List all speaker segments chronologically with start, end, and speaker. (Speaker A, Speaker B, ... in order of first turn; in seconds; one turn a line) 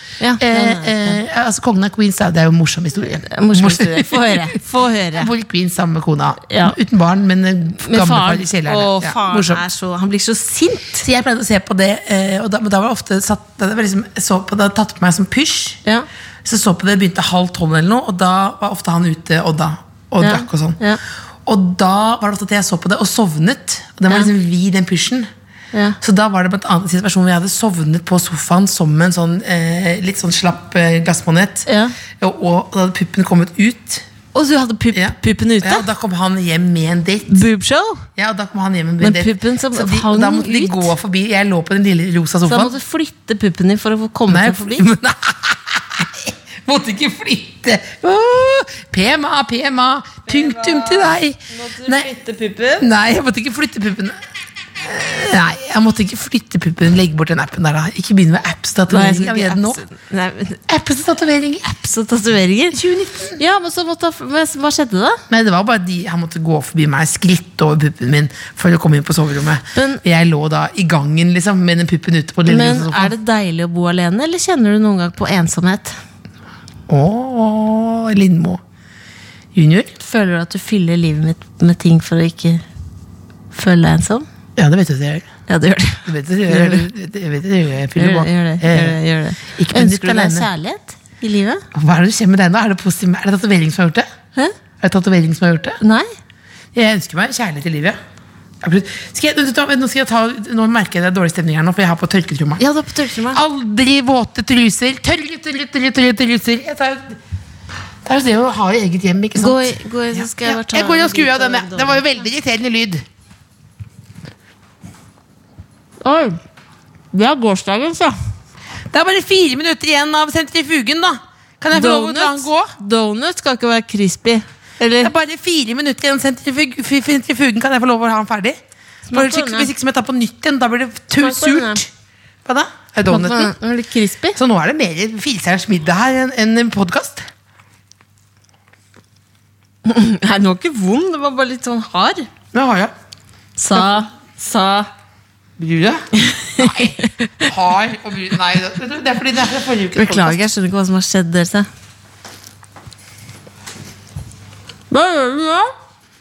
Speaker A: 0.2-1.2
Speaker B: 0.4-4.6
Speaker A: 3.3-5.3
Speaker B: 5.1-9.6
Speaker A: 6.5-6.8
Speaker A: 7.8-11.1
Speaker B: 11.0-15.8
Speaker B: 16.4-20.8
Speaker A: 20.2-21.0
Speaker B: 21.4-25.3
Speaker B: 26.0-34.0
Speaker A: 31.6-31.9
Speaker A: 34.3-35.9
Speaker B: 34.9-37.4
Speaker A: 37.3-38.0
Speaker B: 38.1-42.7
Speaker A: 39.0-40.9
Speaker A: 42.5-44.9
Speaker B: 44.3-52.1
Speaker A: 50.3-52.9
Speaker B: 52.8-54.2
Speaker B: 54.8-59.8
Speaker A: 58.9-60.6
Speaker B: 60.7-61.8
Speaker A: 61.7-62.8
Speaker B: 62.7-63.4
Speaker A: 63.4-65.2
Speaker B: 65.3-73.1
Speaker A: 69.7-70.0
Speaker A: 72.5-76.0
Speaker B: 76.9-78.6
Speaker B: 79.5-79.9
Speaker A: 80.0-82.6
Speaker A: 83.5-84.2
Speaker B: 84.5-85.3
Speaker A: 85.5-86.8
Speaker B: 86.0-90.5
Speaker A: 88.0-91.6
Speaker B: 91.7-94.0
Speaker B: 94.8-95.8
Speaker A: 95.8-96.1
Speaker B: 96.7-98.0
Speaker B: 98.6-102.6
Speaker A: 102.6-103.4
Speaker B: 103.3-107.2
Speaker B: 108.0-113.0
Speaker A: 109.3-112.2
Speaker A: 116.0-116.4
Speaker A: 117.1-118.2
Speaker B: 118.9-122.7
Speaker A: 121.7-125.1
Speaker B: 125.0-128.6
Speaker A: 129.1-129.7
Speaker B: 129.1-131.9
Speaker A: 131.2-131.8
Speaker B: 132.4-133.5
Speaker A: 133.1-134.4
Speaker B: 134.3-137.2
Speaker A: 139.8-142.3
Speaker B: 142.5-142.9
Speaker A: 143.6-144.9
Speaker B: 145.6-146.0
Speaker A: 146.2-147.5
Speaker B: 146.6-150.4
Speaker A: 149.9-151.7
Speaker A: 154.9-155.7